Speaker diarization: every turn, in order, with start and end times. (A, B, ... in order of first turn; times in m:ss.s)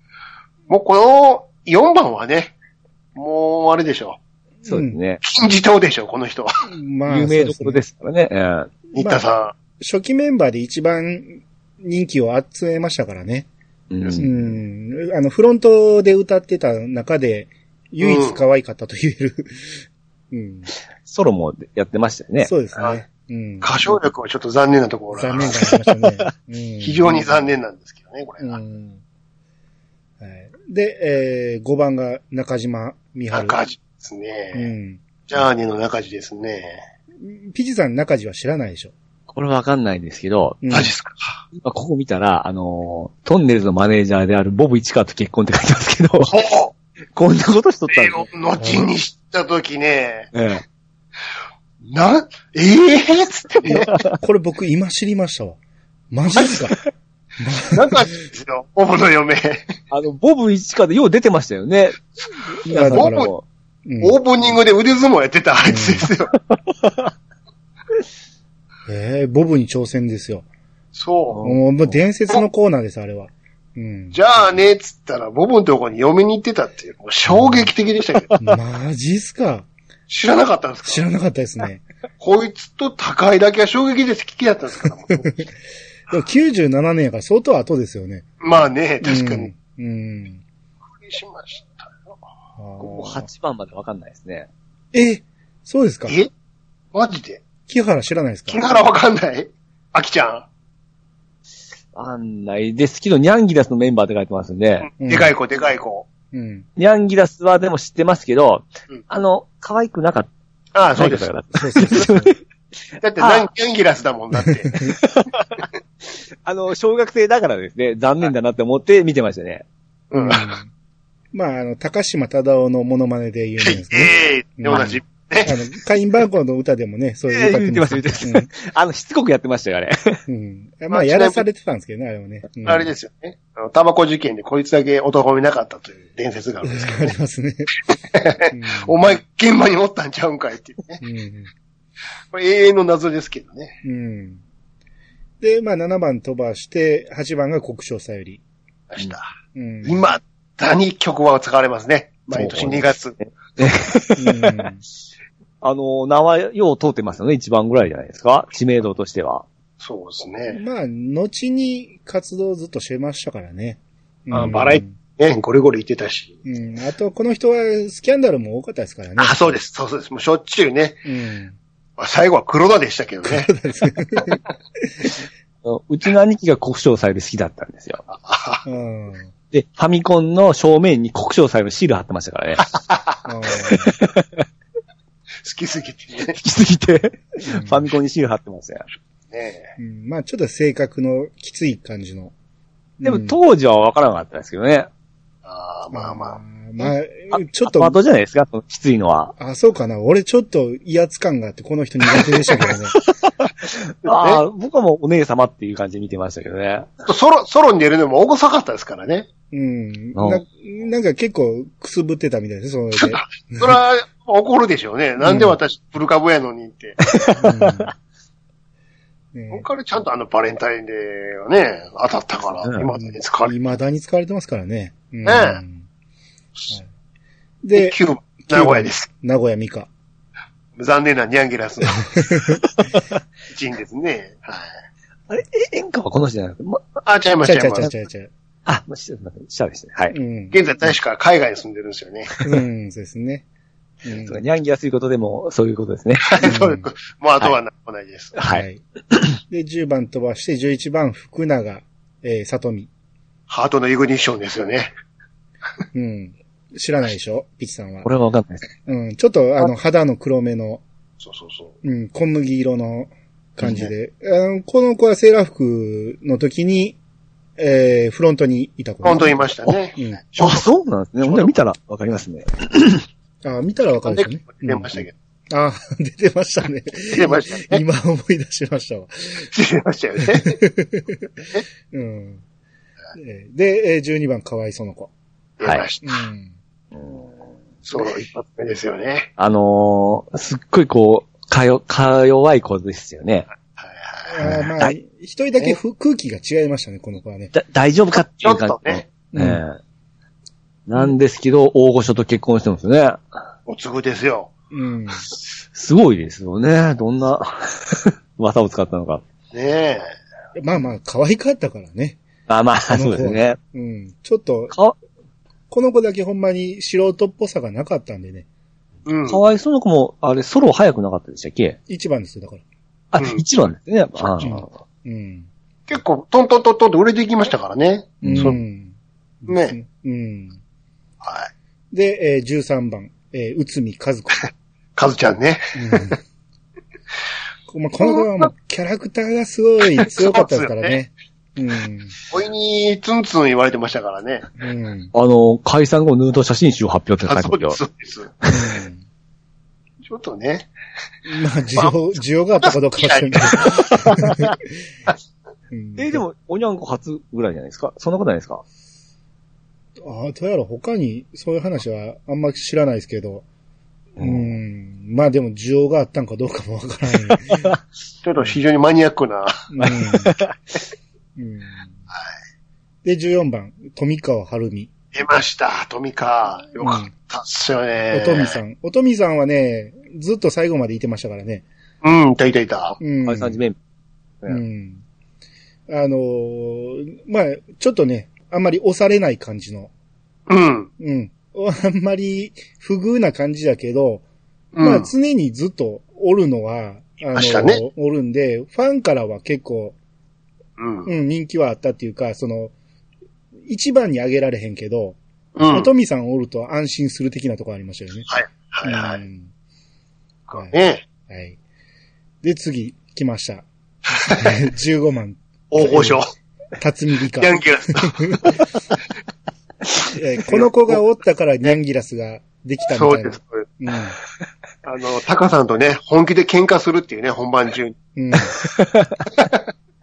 0:00.7-0:02.5 A
0:03.2-0:04.2 A
0:04.6-0:05.0 B
0:04.6-0:05.2 C
0:05.2-0:06.5 A
0:06.7-0:07.8 B
0:07.1-0:08.7 C
0:08.9-0:09.2 B
0:08.9-0:09.5 A
0:09.8-0:13.5 B
0:13.9-0:14.3 C
0:14.2-0:19.8 B
0:18.0-0:18.4 A
0:20.3-0:20.7 B
0:21.0-0:22.5 C
0:22.4-0:23.7 B
0:23.6-0:25.7 A
0:25.1-0:27.5 B
0:26.8-0:28.6 A
0:28.4-0:29.0 B
0:30.2-0:33.6 B
0:33.3-0:34.7 A
0:34.5-0:35.0 B
0:35.3-0:36.8 A
0:37.2-0:38.9 B
0:39.3-0:40.6 C
0:40.6-0:40.9 B
0:40.7-0:41.4 A
0:41.5-0:46.4 C
0:46.3-0:46.7 A
0:47.1-0:48.2 C
0:47.9-0:50.3 A
0:48.6-0:48.9 B
0:50.3-0:50.6 C
0:51.8-0:53.9 A
0:53.9-0:54.2 C
0:54.2-0:55.6 B
0:56.1-0:56.7 B
0:56.3-0:56.7 A
0:57.4-0:58.1 B
0:57.7-0:59.6 A
0:59.9-1:02.0 C
1:02.6-1:03.4 C
1:02.7-1:03.3 B
1:02.9-1:03.3 A
1:03.8-1:04.2 B
1:04.0-1:06.3 A
1:05.6-1:06.1 B
1:06.5-1:07.1 C
1:08.9-1:10.4 B
1:10.9-1:11.4 A
1:11.3-1:11.9 C
1:11.4-1:14.2 B
1:14.1-1:18.3 A
1:17.3-1:17.7 B
1:18.4-1:19.7 B
1:20.1-1:21.0 A
1:20.8-1:21.8 B
1:22.2-1:25.5 A
1:26.1-1:28.4 B
1:28.4-1:29.5 A
1:29.0-1:30.4 B
1:30.9-1:32.2 A
1:32.6-1:33.3 B
1:32.8-1:34.5 C
1:34.9-1:36.2 B
1:36.9-1:37.4 A
1:37.7-1:38.6 B
1:38.5-1:40.4 A
1:41.9-1:44.9 C
1:45.0-1:45.3 B
1:45.0-1:46.1 A
1:46.3-1:46.7 B
1:46.8-1:50.3 C
1:50.7-1:51.3 A
1:51.0-1:52.3 C
1:51.5-1:52.3 B
1:53.0-1:54.8 A
1:53.2-1:53.5 C
1:55.0-1:55.6 C
1:56.4-1:59.6 C
2:00.1-2:00.5 A
2:00.2-2:00.7 B
2:01.3-2:08.5 B
2:03.6-2:05.5 A
2:07.3-2:10.2 C
2:10.3-2:12.9 B
2:10.9-2:11.4 A
2:12.6-2:17.1 A
2:16.6-2:17.7 B
2:18.1-2:21.0 A
2:18.5-2:19.0 B
2:21.0-2:21.5 B
2:22.3-2:23.8 A
2:23.8-2:24.4 B
2:25.4-2:28.4 B
2:28.9-2:29.3 A
2:29.5-2:30.0 B
2:29.8-2:33.2 A
2:32.3-2:32.8 C
2:33.6-2:34.6 C
2:34.2-2:34.8 B
2:35.6-2:39.4 C
2:39.8-2:40.6 A
2:40.5-2:45.0 B
2:44.3-2:46.4 A
2:46.4-2:49.5 B
2:49.2-2:51.0 A
2:51.0-2:51.6 B
2:52.0-2:53.5 A
2:53.2-2:54.9 B
2:55.6-2:58.0 C
2:58.1-2:58.6 A
2:58.6-2:59.3 B
2:59.5-3:02.6 C
3:02.9-3:03.1 A
3:03.2-3:03.9 B
3:03.6-3:04.4 C
3:05.4-3:06.4 A
3:06.3-3:08.8 C
3:07.4-3:07.8 B
3:09.3-3:09.7 A
3:09.8-3:12.3 B
3:13.0-3:13.4 B
3:13.0-3:14.9 C
3:15.4-3:16.4 A
3:15.9-3:18.0 B
3:17.3-3:19.3 C
3:19.4-3:23.0 B
3:23.2-3:26.9 C
3:24.0-3:24.4 A
3:27.0-3:29.3 A
3:29.5-3:33.8 B
3:30.1-3:30.4 C
3:33.0-3:37.2 A
3:35.2-3:35.5 B
3:37.0-3:37.9 C
3:37.4-3:37.9 B
3:39.3-3:39.6 B
3:39.5-3:43.5 A
3:43.0-3:45.8 B
3:45.2-3:45.6 A
3:47.6-3:49.9 B
3:47.7-3:49.1 A
3:50.8-3:52.2 A
3:52.2-3:52.6 B
3:53.5-3:54.7 A
3:55.3-3:56.8 C
3:57.0-3:57.9 A
3:57.4-3:58.3 B
3:58.6-4:00.2 C
4:00.1-4:00.5 B
4:00.5-4:02.3 A
4:02.4-4:03.4 B
4:04.0-4:04.4 B
4:04.1-4:06.3 C
4:06.3-4:08.4 A
4:06.4-4:06.9 B
4:08.4-4:09.4 C
4:08.5-4:08.8 B
4:09.5-4:12.9 B
4:13.5-4:14.9 A
4:15.9-4:18.1 B
4:18.0-4:18.7 C
4:18.8-4:20.8 B
4:21.2-4:21.7 A
4:21.8-4:27.0 B
4:23.6-4:23.9 A
4:27.6-4:29.3 B
4:29.0-4:30.7 A
4:30.4-4:33.0 C
4:31.2-4:31.5 A
4:33.4-4:39.5 B
4:34.0-4:35.1 A
4:37.1-4:37.8 A
4:39.5-4:40.6 A
4:40.2-4:42.4 B
4:43.1-4:45.1 B
4:45.6-4:46.2 A
4:46.0-4:46.5 B
4:47.0-4:47.2 C
4:47.9-4:49.3 A
4:49.4-4:53.5 C
4:53.8-4:54.4 A
4:54.2-4:57.5 B
4:54.4-4:54.9 C
4:57.5-4:59.8 C
4:58.4-4:59.0 A
4:59.3-4:59.6 B
5:00.9-5:03.2 C
5:03.7-5:04.5 A
5:04.7-5:05.2 B
5:05.7-5:09.2 C
5:09.5-5:10.1 A
5:10.6-5:12.2 B
5:12.5-5:13.6 C
5:12.9-5:14.7 B
5:15.7-5:18.4 B
5:19.0-5:19.4 A
5:19.3-5:21.8 C
5:21.9-5:22.6 B
5:23.1-5:24.7 C
5:24.4-5:25.5 B
5:25.9-5:28.6 A
5:28.2-5:30.6 B
5:28.2-5:28.5 C
5:29.5-5:29.7 A
5:31.2-5:31.5 A
5:31.9-5:34.4 B
5:35.0-5:36.2 A
5:35.7-5:36.2 B
5:37.7-5:42.2 B
5:38.0-5:38.5 A
5:40.0-5:40.9 A
5:42.3-5:44.5 A
5:44.6-5:45.1 B
5:45.1-5:47.8 C
5:47.2-5:48.3 A
5:48.5-5:49.0 B
5:50.0-5:50.7 A
5:51.2-5:54.7 B
5:52.6-5:54.1 A
5:55.7-5:56.2 B
5:56.0-5:58.6 C
6:00.0-6:03.4 B
6:04.2-6:04.5 C
6:04.2-6:07.7 B
6:07.3-6:07.8 C
6:08.2-6:09.6 A
6:09.7-6:10.3 B
6:09.8-6:10.6 C
6:11.4-6:11.9 B
6:13.0-6:14.9 B
6:15.1-6:18.6 A
6:16.8-6:17.1 B
6:18.1-6:21.6 B
6:22.0-6:23.0 A
6:23.0-6:23.6 B
6:23.2-6:23.8 C
6:24.5-6:25.0 B
6:25.9-6:29.9 B
6:30.5-6:30.9 A
6:31.0-6:34.2 B
6:34.7-6:35.1 A
6:34.8-6:40.0 B
6:37.3-6:37.8 A
6:40.8-6:41.1 A
6:41.0-6:42.7 B
6:43.6-6:45.2 B
6:45.6-6:45.9 A
6:45.7-6:48.3 B
6:48.3-6:49.2 A
6:48.8-6:49.5 B
6:50.5-6:51.0 A
6:51.3-6:51.6 B
6:52.4-6:53.6 B
6:54.1-6:54.5 A
6:54.3-6:56.2 B
6:55.7-6:56.3 A
6:56.8-6:58.6 B
6:57.4-6:58.6 A
7:00.1-7:04.2 B
7:00.5-7:00.9 A
7:02.9-7:03.6 A
7:04.8-7:07.9 A
7:08.2-7:08.5 B
7:08.6-7:09.2 C